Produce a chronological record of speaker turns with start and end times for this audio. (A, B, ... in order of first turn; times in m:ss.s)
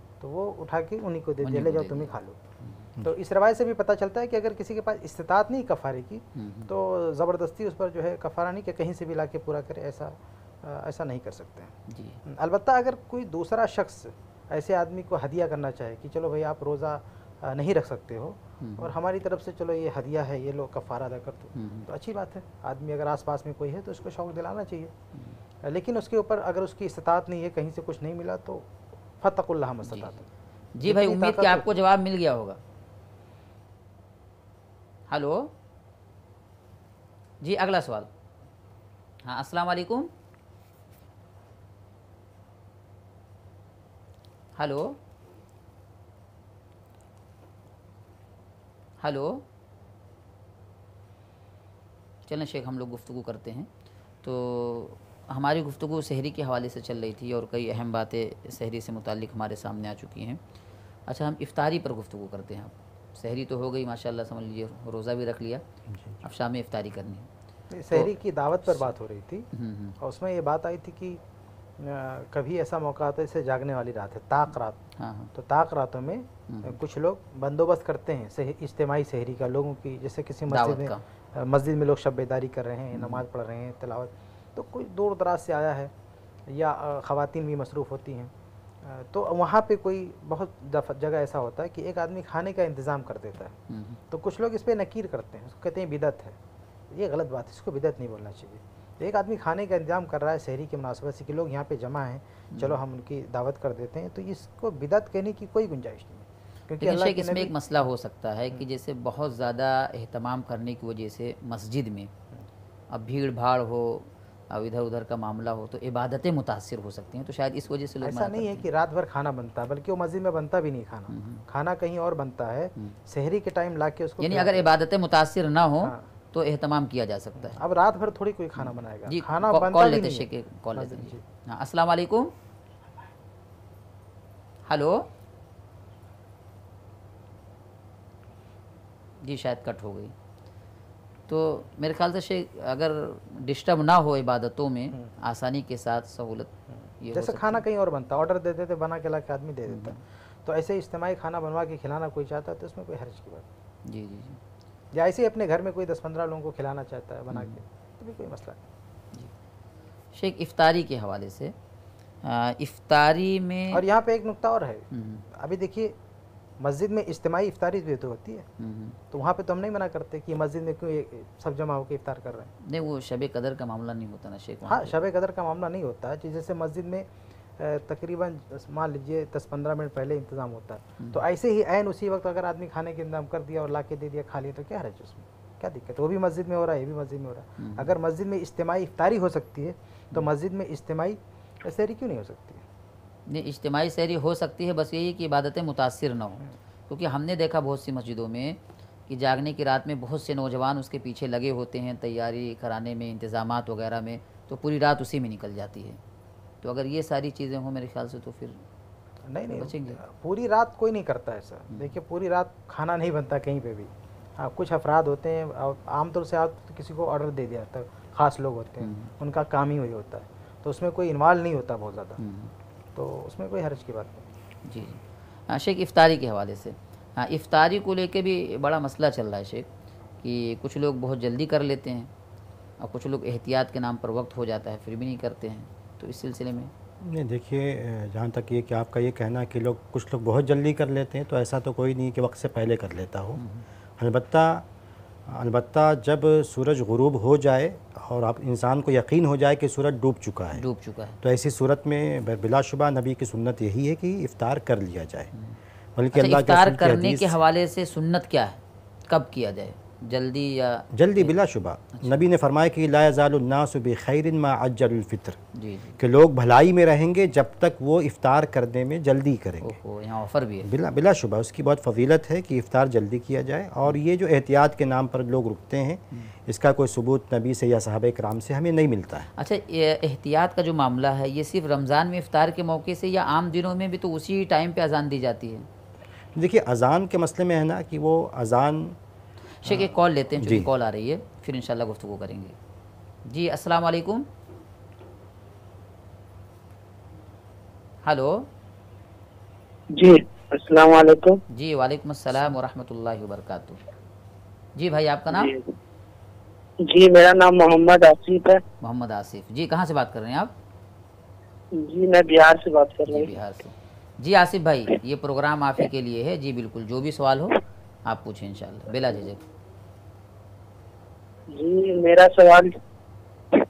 0:00.2-0:02.4 A
0:01.4-0:02.9 B
0:03.0-0:24.9 A
0:06.4-0:06.7 B
0:11.9-0:12.2 B
0:18.6-0:18.9 B
0:21.6-0:21.9 B
0:25.1-0:25.4 B
0:25.6-0:28.7 A
0:29.2-0:30.3 A
0:29.9-0:30.1 B
0:30.8-0:32.6 B
0:30.8-0:31.7 A
0:35.1-0:35.5 B
0:37.4-0:38.1 B
0:39.2-0:40.1 B
0:44.6-0:45.0 B
0:49.0-0:49.4 B
0:52.3-0:53.7 B
0:54.2-1:00.4 B
1:01.1-1:05.6 B
1:05.9-1:06.2 C
1:06.2-1:07.3 B
1:07.7-1:09.5 A
1:07.9-1:09.0 B
1:09.5-1:10.0 B
1:10.0-1:11.2 A
1:11.8-1:14.8 A
1:15.0-1:15.3 B
1:15.4-1:25.9 A
1:16.5-1:16.8 B
1:20.5-1:21.0 B
1:23.0-1:23.2 B
1:26.5-1:28.3 A
1:28.8-1:33.6 A
1:33.7-1:34.0 B
1:34.1-1:36.4 A
1:36.9-1:47.5 A
1:46.8-1:52.1 B
1:52.9-1:58.7 B
1:58.0-2:04.7 A
2:01.1-2:01.5 B
2:04.2-2:07.6 B
2:07.4-2:11.2 A
2:08.6-2:12.3 B
2:14.7-2:15.1 B
2:19.2-2:20.1 B
2:21.3-2:27.6 B
2:26.7-2:33.5 A
2:29.7-2:30.0 B
2:33.9-2:34.4 B
2:34.9-2:38.6 A
2:40.2-2:41.5 B
2:42.2-2:43.8 B
2:43.7-2:44.8 A
2:44.9-2:45.2 B
2:45.4-2:46.0 A
2:46.6-2:48.5 A
2:48.6-2:49.0 B
2:49.1-2:52.5 A
2:52.6-2:55.0 B
2:54.7-2:57.1 A
2:57.6-3:12.6 A
3:07.6-3:07.9 B
3:13.3-3:26.0 B
3:26.6-3:28.6 B
3:29.3-3:42.2 A
3:29.5-3:30.0 B
3:38.8-3:39.1 B
3:42.2-3:42.5 B
3:43.0-3:44.3 A
3:44.7-3:49.7 B
3:50.2-3:52.1 B
3:52.8-3:56.7 B
3:57.0-4:03.4 C
4:03.4-4:03.6 B
4:04.0-4:04.7 C
4:05.3-4:10.6 C
4:10.6-4:11.2 B
4:11.2-4:15.3 C
4:16.0-4:17.4 C
4:16.1-4:21.4 B
4:20.9-4:25.4 C
4:21.9-4:22.3 B
4:25.6-4:26.0 B
4:26.0-4:29.8 C
4:29.6-4:30.7 B
4:30.6-4:39.3 C
4:39.4-4:45.7 B
4:46.4-4:49.0 C
4:49.6-4:52.6 B
4:49.7-4:50.7 C
4:53.3-4:54.3 B
4:58.0-4:58.5 B
5:00.0-5:01.4 D
5:01.5-5:03.8 B
5:04.8-5:05.5 B
5:05.3-5:05.7 D
5:06.9-5:08.6 D
5:08.8-5:10.5 B
5:11.8-5:13.3 D
5:13.1-5:19.4 B
5:21.5-5:22.7 D